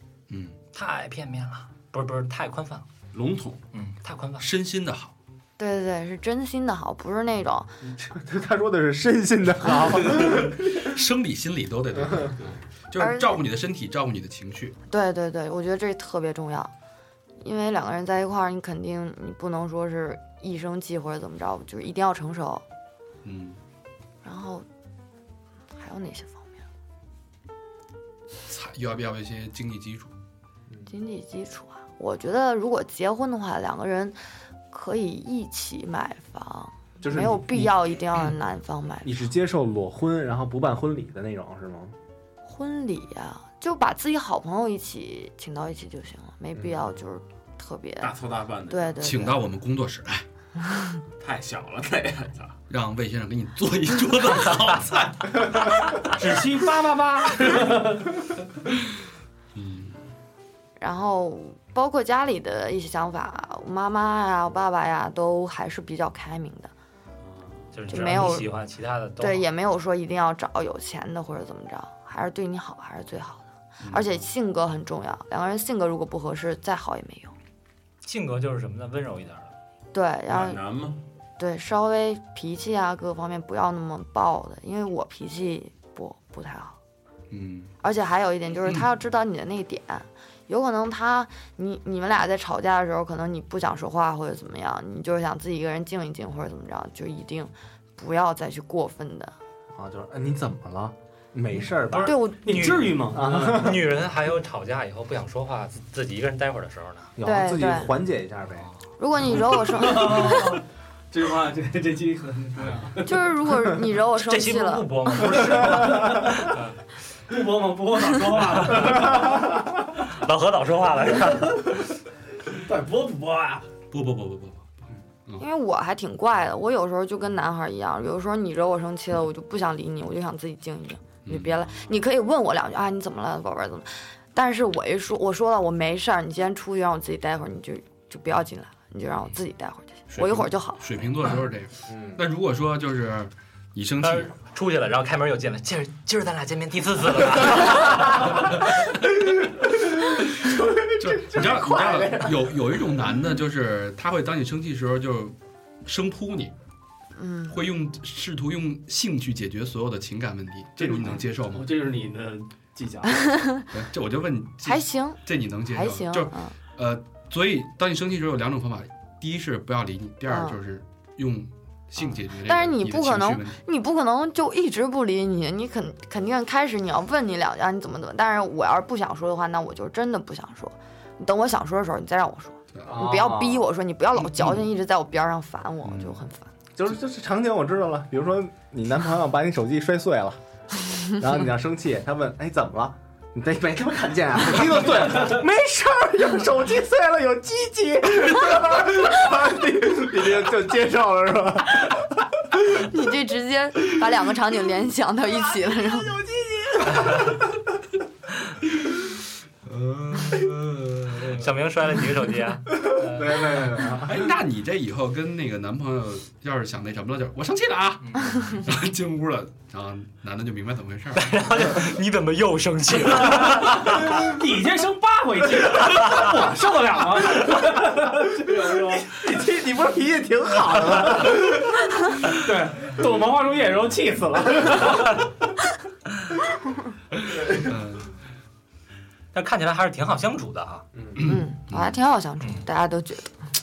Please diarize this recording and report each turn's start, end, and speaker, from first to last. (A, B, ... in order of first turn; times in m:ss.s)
0:00.3-0:00.6 A
0:00.7-0:02.8 B
0:03.1-0:03.6 C
0:03.7-0:04.5 B
0:04.4-0:05.1 A
0:05.6-0:07.7 D
0:08.0-0:10.9 E
0:10.7-0:14.8 A
0:12.0-0:12.3 E
0:13.0-0:13.4 D
0:14.9-0:16.7 D
0:17.4-0:22.6 D
0:23.2-0:23.6 A
0:24.2-0:24.6 D
0:25.8-0:26.5 D
0:28.5-0:30.1 A
0:30.9-0:34.2 D
0:34.7-0:39.2 D
0:37.0-0:37.7 E
0:39.0-0:41.9 E
0:42.4-0:48.2 D
0:48.0-0:49.0 C
0:48.7-0:49.4 D
0:49.0-0:50.2 A
0:50.6-0:51.0 D
0:51.2-0:52.6 C
0:52.7-0:56.0 A
0:56.1-0:58.1 F
0:59.5-1:00.0 A
1:00.8-1:06.7 D
1:07.2-1:07.8 C
1:07.7-1:09.4 B
1:07.9-1:08.5 D
1:09.2-1:17.3 D
1:13.8-1:14.1 C
1:18.0-1:19.5 B
1:19.9-1:20.6 D
1:20.3-1:21.0 C
1:21.4-1:26.8 D
1:27.3-1:27.7 A
1:27.8-1:39.3 D
1:39.7-1:42.2 E
1:41.9-1:47.1 B
1:42.0-1:42.9 D
1:42.4-1:43.8 F
1:43.1-1:43.8 E
1:47.2-1:48.7 E
1:47.2-1:47.9 D
1:49.0-1:50.6 D
1:49.5-1:53.5 F
1:53.0-1:55.6 D
1:54.2-1:56.8 B
1:55.3-1:56.5 F
1:57.3-1:59.6 F
1:58.5-1:59.4 B
2:00.1-2:01.6 B
2:01.2-2:01.9 F
2:02.4-2:03.7 F
2:03.9-2:05.4 A
2:05.4-2:20.9 D
2:11.2-2:11.7 A
2:20.1-2:24.3 A
2:21.9-2:22.2 E
2:24.0-2:28.8 B
2:29.1-2:32.8 E
2:30.9-2:36.5 A
2:37.1-2:37.6 D
2:37.5-2:41.8 A
2:40.8-2:43.6 F
2:43.2-2:43.7 D
2:43.7-2:53.6 A
2:44.6-2:46.5 D
2:50.3-2:50.6 D
2:52.4-3:06.5 D
3:02.8-3:03.7 E
3:04.3-3:04.7 A
3:05.8-3:06.2 A
3:06.8-3:10.4 E
3:11.2-3:22.3 E
3:22.6-3:26.2 D
3:26.0-3:27.6 E
3:29.7-3:31.3 A
3:30.1-3:30.4 E
3:31.1-3:33.6 B
3:32.7-3:34.4 E
3:33.9-3:41.5 A
3:38.0-3:38.3 B
3:41.1-3:44.2 B
3:43.2-3:49.2 F
3:45.9-3:46.3 B
3:47.3-3:47.6 E
3:48.2-3:51.8 E
3:52.3-3:55.3 F
3:57.3-3:58.1 A
3:59.3-4:00.8 B
4:01.0-4:01.3 E
4:01.1-4:02.0 A
4:01.2-4:03.4 D
4:02.4-4:02.6 B